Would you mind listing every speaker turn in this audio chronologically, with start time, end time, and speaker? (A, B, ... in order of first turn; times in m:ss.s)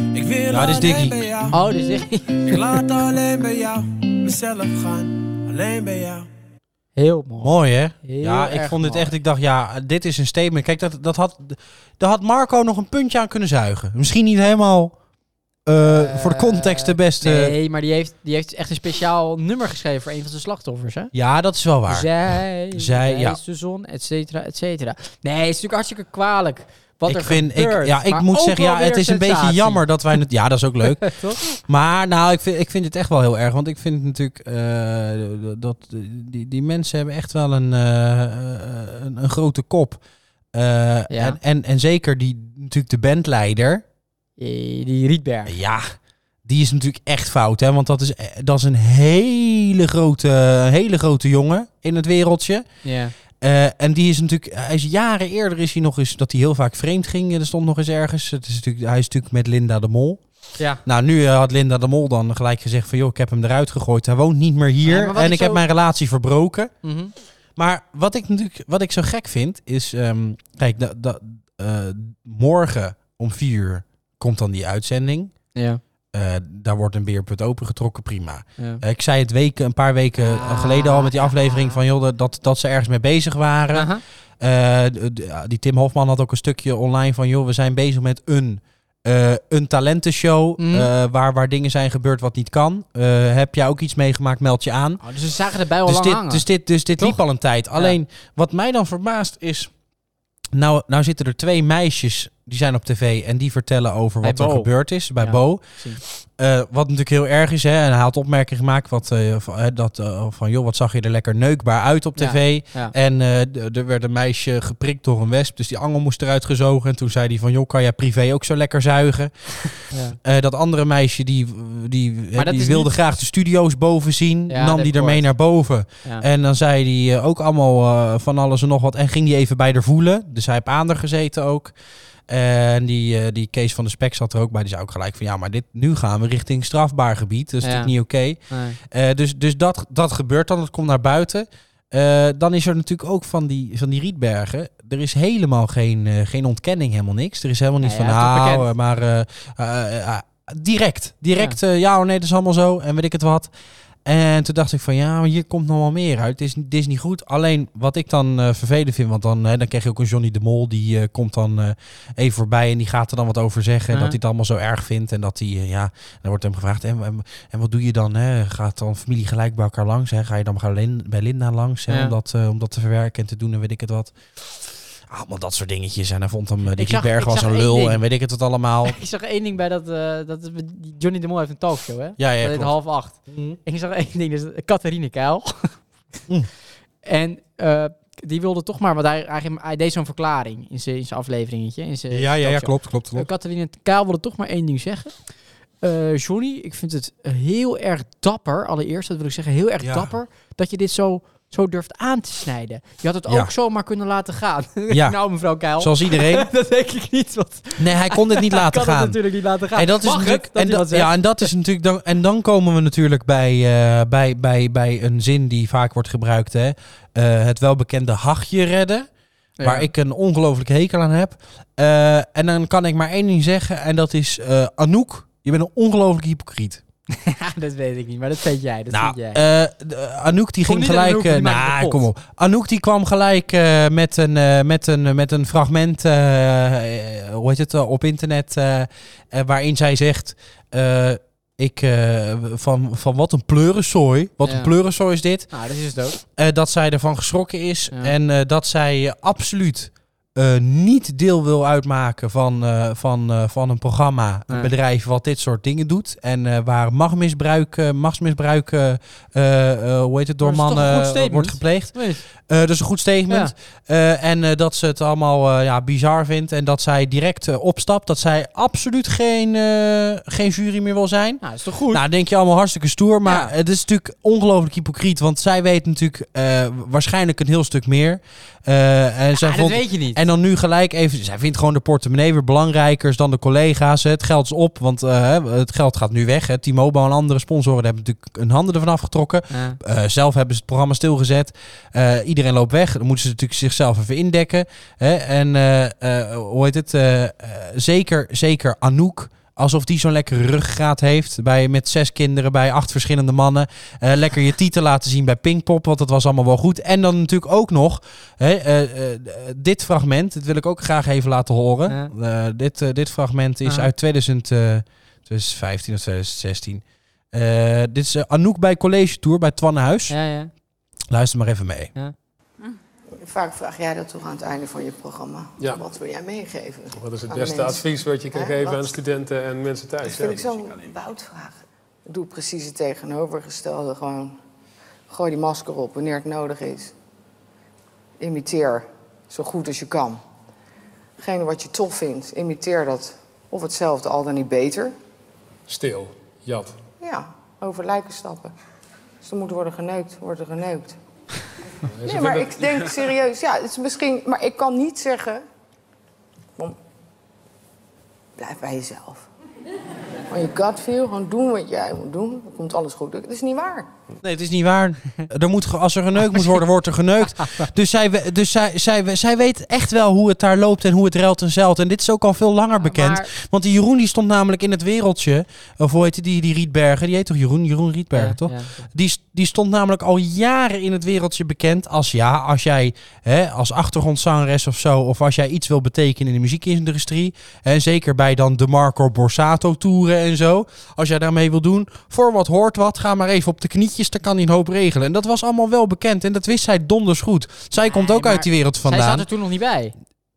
0:00.1-0:01.6 A
0:00.5-0:01.2 B
0:01.5-0:02.8 C
0:02.4-0:06.3 A
0:07.0-0:09.1 C
0:07.4-0:15.0 B
0:15.7-0:17.6 B
0:15.8-0:21.1 C
0:21.1-0:22.1 B
0:21.9-0:29.8 C
0:22.7-0:23.4 B
0:27.1-0:40.0 B
0:30.9-0:31.4 C
0:40.5-0:43.8 B
0:41.1-0:41.4 C
0:44.4-0:45.6 C
0:45.5-0:52.7 B
0:52.8-0:53.1 C
0:53.4-1:00.2 B
1:00.8-1:06.7 B
1:04.8-1:05.6 C
1:06.8-1:07.1 C
1:07.6-1:15.3 B
1:15.6-1:15.8 C
1:16.1-1:35.0 B
1:20.2-1:21.8 C
1:23.7-1:24.0 C
1:30.6-1:30.9 C
1:35.0-1:36.5 C
1:35.8-1:39.7 B
1:40.5-2:11.7 B
1:44.2-1:46.0 C
1:52.2-1:52.9 C
1:59.9-2:00.2 C
2:02.4-2:02.9 C
2:04.5-2:05.3 C
2:12.3-2:33.5 B
2:17.6-2:17.9 C
2:18.5-2:18.8 C
2:27.8-2:28.7 C
2:34.0-2:54.2 B
2:51.9-2:52.1 C
2:55.1-2:59.0 B
2:56.7-2:58.0 C
2:58.8-3:05.8 C
3:02.2-3:02.7 B
3:03.3-3:03.6 B
3:07.1-3:15.1 C
3:12.1-3:13.3 B
3:15.8-3:31.2 C
3:19.8-3:20.1 B
3:24.9-3:25.2 B
3:25.8-3:26.5 B
3:27.8-3:29.2 B
3:29.8-3:39.1 B
3:39.6-3:39.9 C
3:39.6-3:46.8 B
3:47.1-3:49.4 C
3:48.9-4:05.5 B
3:50.6-3:52.0 C
4:04.4-4:04.7 C
4:05.5-4:06.2 C
4:06.4-5:20.2 B
4:20.4-4:22.2 C
4:31.4-4:32.0 C
4:33.2-4:33.5 C
4:39.4-4:40.2 C
4:49.5-4:49.8 C
5:20.1-5:20.5 C
5:21.1-5:21.9 B
5:23.2-5:29.0 D
5:27.0-5:30.5 E
5:30.0-5:34.4 D
5:35.1-5:36.9 D
5:38.2-5:40.2 D
5:41.2-5:45.0 D
5:45.7-5:46.8 E
5:47.0-5:48.5 D
5:49.2-5:51.0 D
5:51.9-5:53.0 E
5:52.0-5:55.4 D
5:58.4-5:59.3 D
6:00.3-6:03.9 D
6:04.2-6:39.3 B
6:12.8-6:13.3 C
6:18.1-6:18.9 C
6:37.8-6:39.9 C